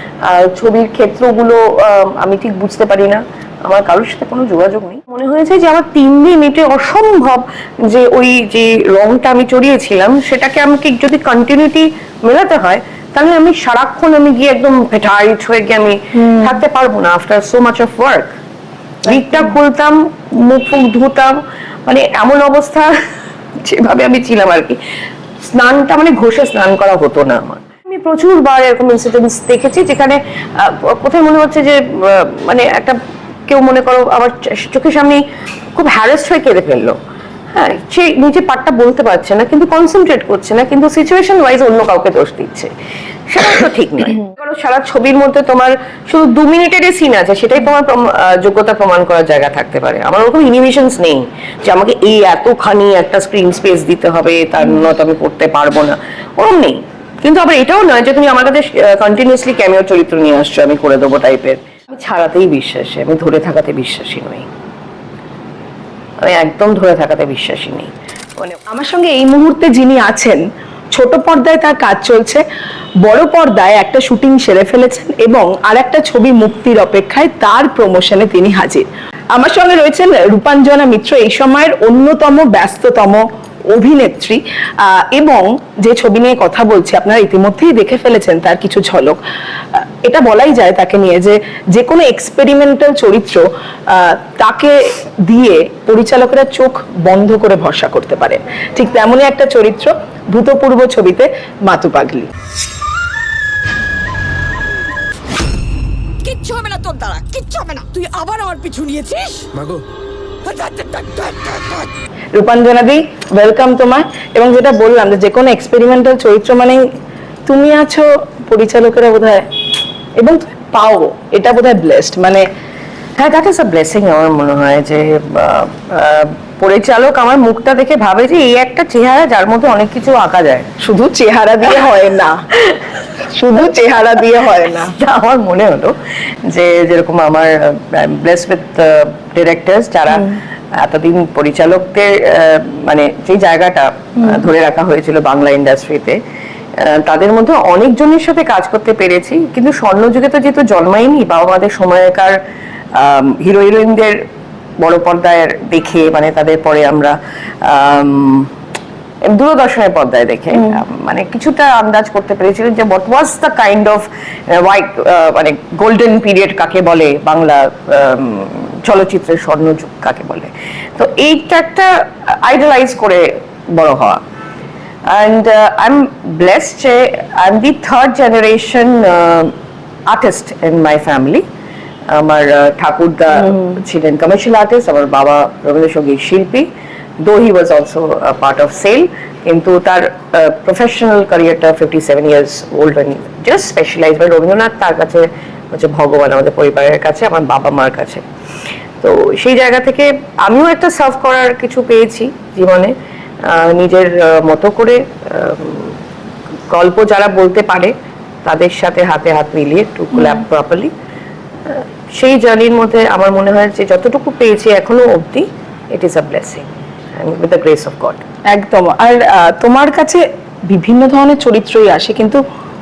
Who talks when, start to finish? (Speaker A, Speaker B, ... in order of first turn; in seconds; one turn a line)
Speaker A: 0.2-18.4
Speaker B: 16.1-16.6
Speaker A: 19.0-22.9
Speaker A: 23.6-24.8
Speaker A: 25.4-35.2
Speaker A: 35.7-37.0
Speaker A: 37.5-42.7
Speaker A: 43.3-64.5
Speaker A: 66.2-68.6
Speaker B: 68.7-70.4
Speaker B: 70.9-72.4
Speaker B: 73.0-89.2
Speaker B: 89.7-102.3
Speaker C: 106.2-109.8
Speaker C: 110.4-111.9
Speaker B: 112.3-116.8
Speaker B: 117.5-119.5
Speaker B: 120.2-122.4
Speaker A: 123.2-130.7
Speaker B: 130.8-132.4
Speaker A: 132.6-133.0
Speaker B: 133.3-134.9
Speaker A: 134.7-135.9
Speaker A: 136.4-146.2
Speaker A: 146.8-152.4
Speaker A: 152.9-154.2
Speaker A: 154.8-158.5
Speaker A: 159.2-174.2
Speaker A: 175.1-179.5
Speaker A: 180.1-181.4
Speaker A: 182.1-186.7
Speaker A: 187.2-198.2
Speaker A: 199.0-202.9
Speaker A: 203.4-205.9
Speaker A: 206.7-207.9
Speaker A: 208.4-210.9
Speaker A: 211.7-216.7
Speaker A: 217.2-218.2
Speaker B: 218.5-222.4